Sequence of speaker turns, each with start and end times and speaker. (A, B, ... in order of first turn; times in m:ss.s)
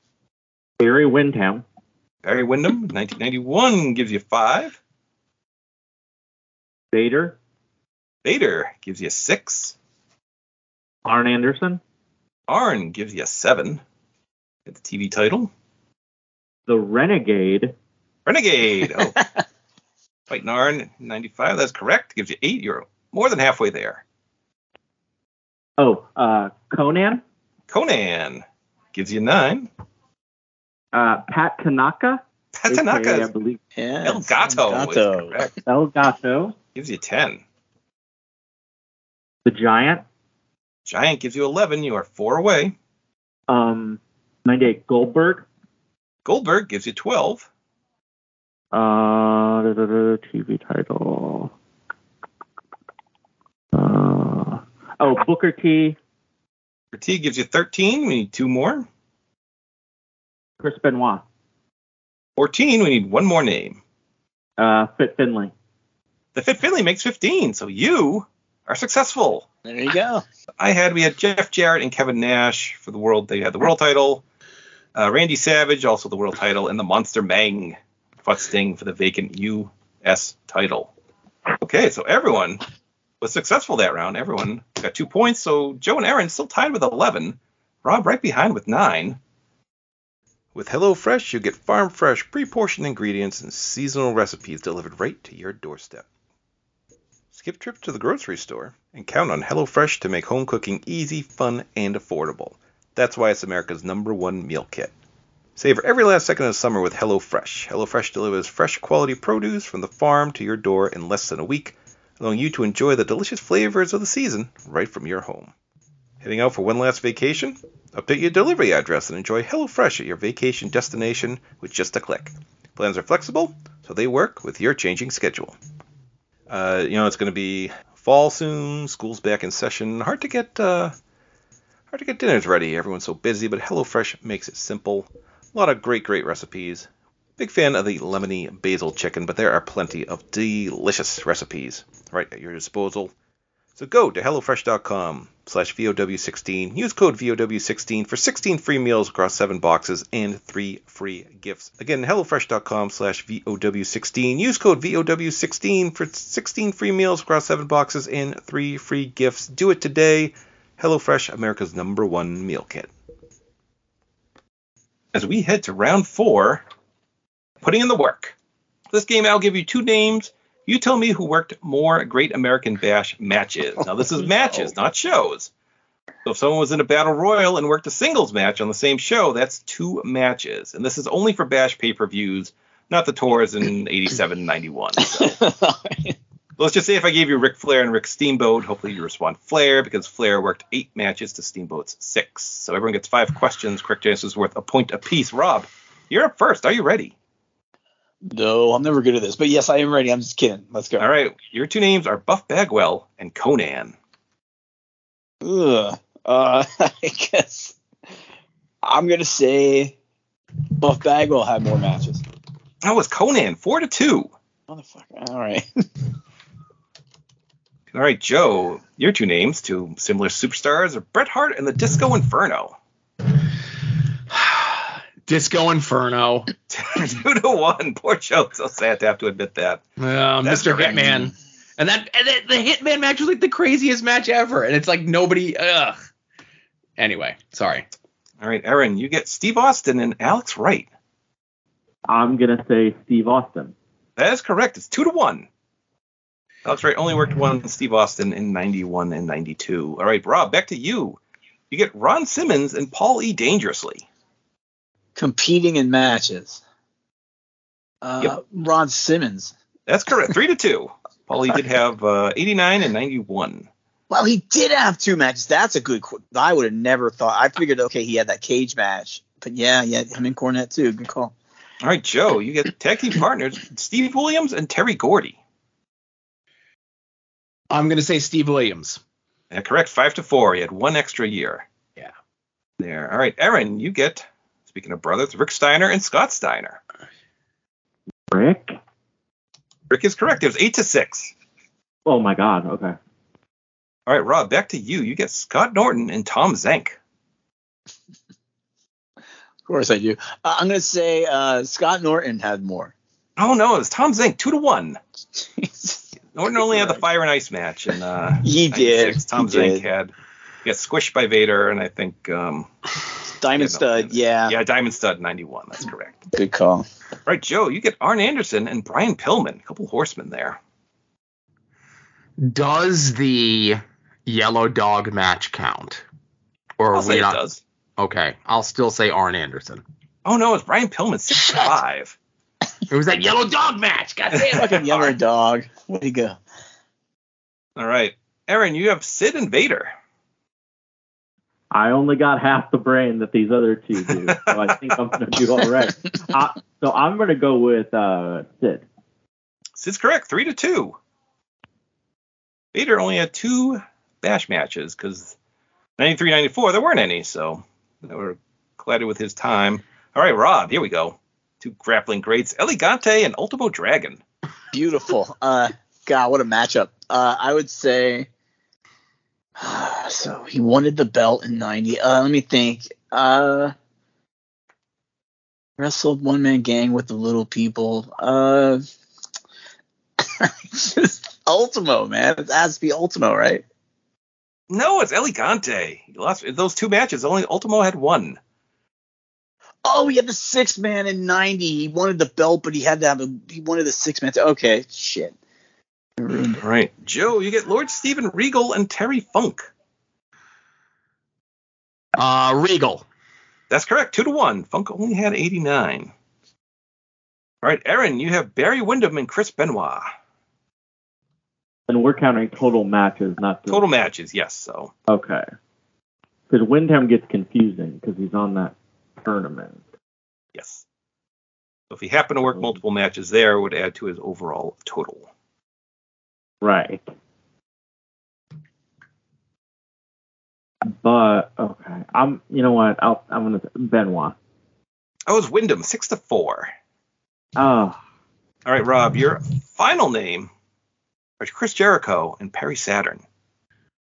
0:00.8-0:01.6 A
0:02.2-0:04.8 B
0:06.9-0:07.4 A
0:08.2-0:09.8 B
0:11.0-0:11.8 A
0:12.5-0:13.8 B
0:14.7-0:15.5 B
0:16.7-0:17.7 A
0:18.3-0:19.2 B
0:19.0-0:19.4 C
0:20.3-0:24.0 B
0:25.8-0:27.2 A
0:27.7-0:29.7 B
0:30.9-0:33.6 A
0:32.5-0:33.3 B
0:33.8-0:35.5 C
0:34.0-0:35.5 B
0:35.7-0:36.6 A
0:36.8-0:37.4 B
0:39.4-0:40.0 A
0:40.9-0:42.8 B
0:43.5-0:45.5 A
0:46.2-0:47.5 B
0:48.7-0:51.5 A
0:53.7-0:56.0 A
0:56.9-0:58.9 B
1:00.6-1:01.2 A
1:02.4-1:03.8 B
1:04.6-1:05.5 A
1:06.4-1:09.5 B
1:09.7-1:10.2 C
1:10.6-1:14.2 B
1:15.0-1:20.9 B
1:21.6-1:22.6 B
1:23.2-1:29.2 B
1:30.6-1:36.0 B
1:37.3-1:44.9 B
1:45.6-1:55.5 B
1:56.2-2:05.6 B
2:06.5-2:10.9 B
2:11.9-2:23.1 B
2:23.8-2:42.9 B
2:45.1-2:46.6 B
2:47.6-2:48.4 B
2:48.9-2:55.5 B
2:56.2-3:05.4 B
3:05.0-3:06.2 C
3:06.6-3:17.1 B
3:18.2-3:21.1 C
3:21.0-3:24.0 B
3:25.4-3:27.8 C
3:28.8-3:30.0 C
3:30.8-3:32.2 C
3:32.8-3:34.3 B
3:34.7-3:35.7 C
3:37.9-3:42.8 B
3:44.3-3:46.5 D
3:46.7-3:49.8 B
3:50.0-3:56.0 D
3:50.4-3:51.3 B
3:57.0-3:57.9 D
3:58.4-4:00.9 B
4:02.1-4:03.7 A
4:04.2-4:05.5 B
4:06.6-4:11.2 B
4:11.7-4:14.1 B
4:15.2-4:16.6 C
4:18.0-4:19.5 C
4:19.9-4:23.7 B
4:24.1-4:31.3 C
4:31.8-4:35.4 B
4:37.7-4:39.0 D
4:39.5-4:41.7 B
4:42.8-4:46.8 B
4:48.3-4:48.8 A
4:49.9-4:51.3 B
4:52.1-4:53.0 A
4:54.1-4:57.0 B
4:59.7-5:02.9 C
5:03.4-5:05.0 B
5:05.4-5:06.0 C
5:06.3-5:10.1 B
5:06.6-5:07.0 C
5:08.4-5:09.8 C
5:10.6-5:12.7 B
5:13.4-5:14.6 C
5:13.6-5:16.3 B
5:16.3-5:16.9 C
5:17.3-5:20.6 B
5:22.4-5:26.0 D
5:26.8-5:27.4 D
5:26.9-5:27.6 B
5:28.0-5:29.8 D
5:30.2-5:32.2 B
5:32.9-5:34.8 D
5:34.3-5:35.0 B
5:34.6-5:36.4 C
5:37.8-5:39.9 B
5:41.7-5:48.9 A
5:44.2-5:44.6 B
5:49.8-5:51.0 B
5:52.7-5:55.4 B
5:56.0-6:04.2 B
6:04.7-6:08.3 C
6:09.6-6:13.7 C
6:15.8-6:18.8 C
6:20.2-6:23.6 C
6:24.7-6:28.4 B
6:29.8-6:35.4 C
6:36.2-6:36.6 C
6:36.6-6:39.7 B
6:42.2-6:43.0 D
6:43.7-6:46.1 B
6:47.6-6:50.1 B
6:51.9-6:53.8 A
6:53.7-6:54.9 B
6:55.1-6:55.4 A
6:56.5-6:59.8 A
7:00.6-7:00.8 B
7:01.9-7:05.3 B
7:06.6-7:07.1 A
7:10.9-7:14.4 A
7:15.3-7:16.7 B
7:17.6-7:18.0 A
7:18.6-7:20.5 B
7:21.4-7:23.2 B